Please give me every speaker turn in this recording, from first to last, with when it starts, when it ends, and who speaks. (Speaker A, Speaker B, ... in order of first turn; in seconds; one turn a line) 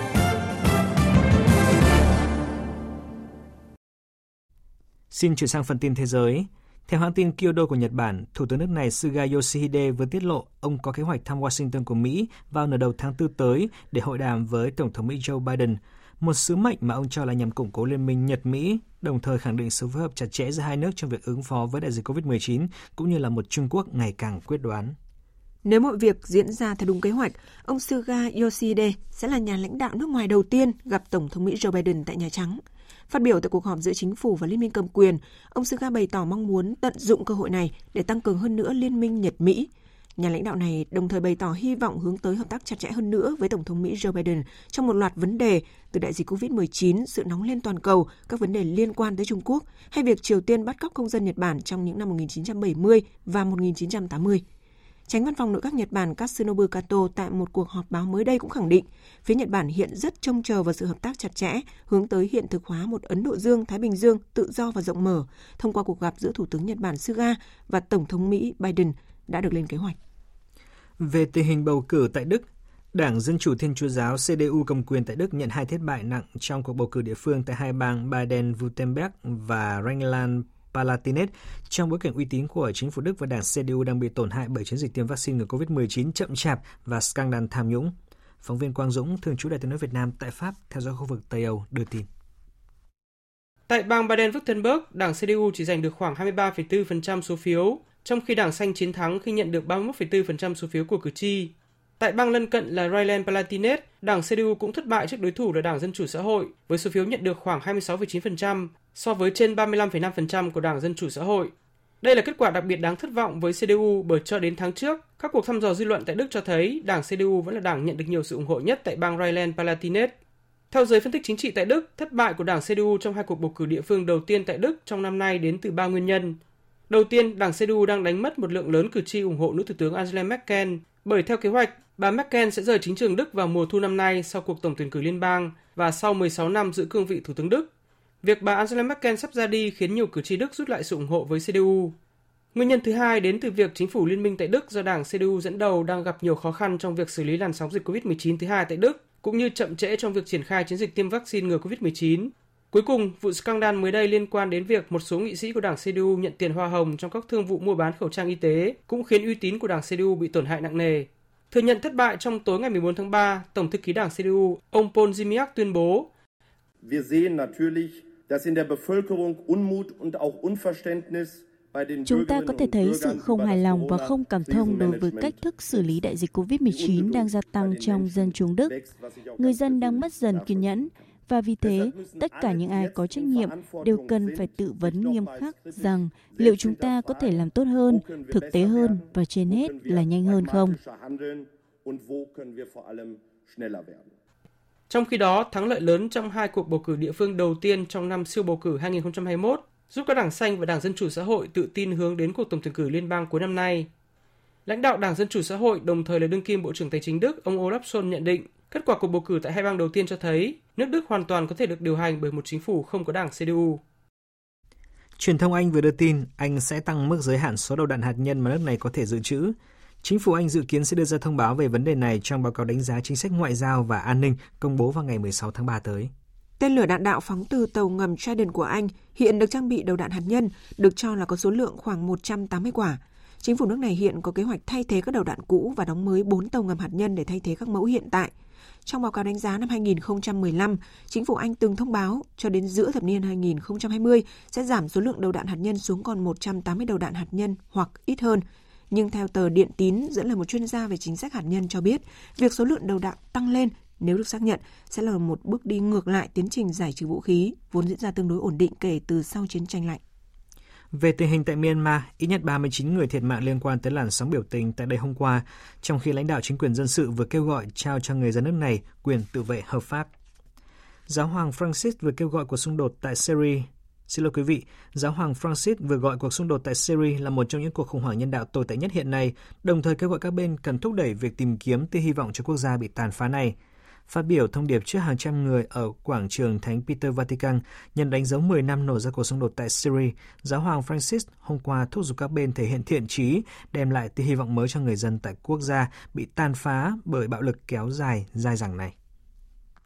Speaker A: 5.1-24.9
Speaker B: 25.6-54.4
Speaker B: 55.1-70.0
Speaker A: 71.0-92.1
Speaker C: 93.7-120.1
Speaker C: 120.7-126.4
Speaker C: 126.9-137.7
Speaker C: 138.2-141.9
Speaker C: 142.5-166.1
Speaker D: 166.8-176.0
Speaker E: 172.0-178.7
Speaker D: 176.6-180.9
Speaker E: 179.4-190.8
Speaker D: 181.6-194.1
Speaker C: 194.9-203.9
Speaker C: 204.7-213.8
Speaker A: 215.2-226.1
Speaker B: 226.6-238.3
Speaker B: 238.8-260.0
Speaker A: 260.9-270.1
Speaker A: 271.1-283.6
Speaker A: 284.1-298.9